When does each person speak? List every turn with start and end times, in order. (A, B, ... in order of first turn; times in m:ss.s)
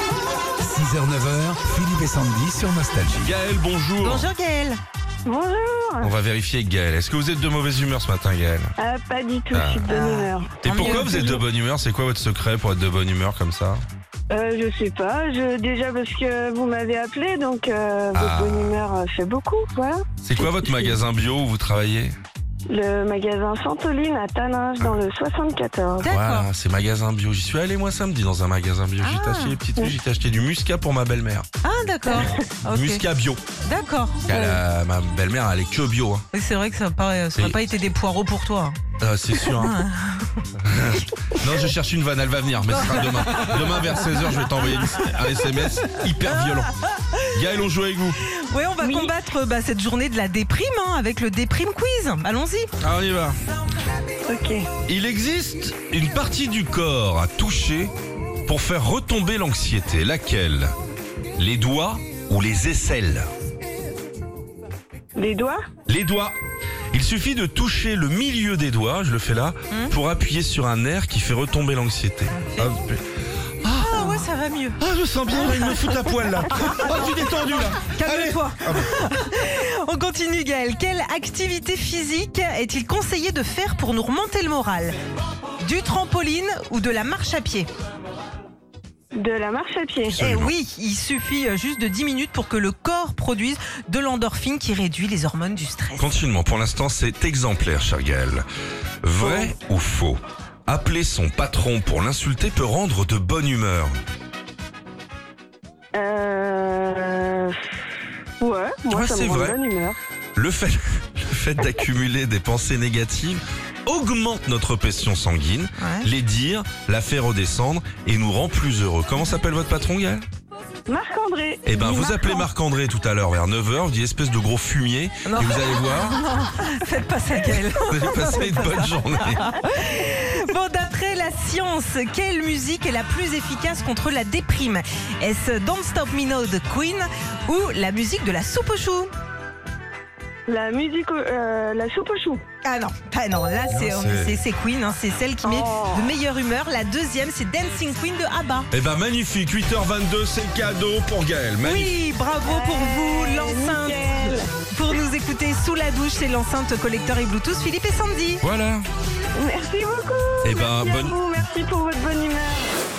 0:00.6-0:03.3 A
0:03.2-0:04.3 B
0:04.0-0:04.8 C
0:05.2-0:06.1 D
0:06.0-0:08.7 B
0:08.8-0:11.4 D
0:09.5-0:09.9 B
0:09.9-0:11.3 C
0:10.6-0:13.8 B
0:14.3-0:21.0 D
0:18.1-0:18.8 B
0:20.2-0:22.1 B
0:22.7-0:26.1 D
0:26.0-0:26.5 C
0:26.0-0:31.4 B
0:29.0-0:29.6 C
0:31.6-0:33.0 C
0:32.2-0:33.4 B
0:33.6-0:34.2 C
0:34.3-0:36.2 B
0:34.3-0:34.6 D
0:36.3-0:38.8 C
0:39.0-0:39.8 B
0:39.4-0:40.4 C
0:40.6-0:46.7 B
0:42.7-0:45.1 C
0:46.2-0:47.4 C
0:47.3-0:48.2 B
0:48.2-0:52.7 C
0:48.8-0:49.1 D
0:52.8-0:53.4 B
0:54.3-0:54.7 D
0:54.8-0:57.9 B
0:58.4-1:00.7 B
1:01.4-1:03.3 B
1:05.1-1:05.6 D
1:05.9-1:06.4 B
1:06.9-1:13.0 B
1:09.7-1:09.9 C
1:12.3-1:12.7 C
1:13.6-1:14.3 B
1:13.6-1:14.8 C
1:14.8-1:19.0 B
1:15.5-1:15.8 C
1:16.7-1:17.0 C
1:17.8-1:25.0 C
1:25.6-1:27.7 C
1:29.1-1:30.2 D
1:30.1-1:30.5 B
1:30.2-1:36.1 C
1:36.0-1:38.4 B
1:39.0-1:43.9 B
1:39.2-1:39.5 D
1:45.9-1:47.6 D
1:48.4-1:50.0 D
1:48.9-1:49.6 B
1:50.3-2:00.2 B
1:55.8-1:56.1 C
2:00.9-2:02.4 D
2:01.6-2:06.2 B
2:05.2-2:19.1 C
2:07.4-2:09.5 B
2:20.5-2:22.4 D
2:22.6-2:28.7 C
2:23.7-2:24.4 B
2:25.4-2:26.1 D
2:28.7-2:32.0 B
2:31.6-2:38.4 C
2:32.4-2:34.5 D
2:38.4-2:38.8 B
2:39.4-2:42.7 D
2:40.4-2:41.2 B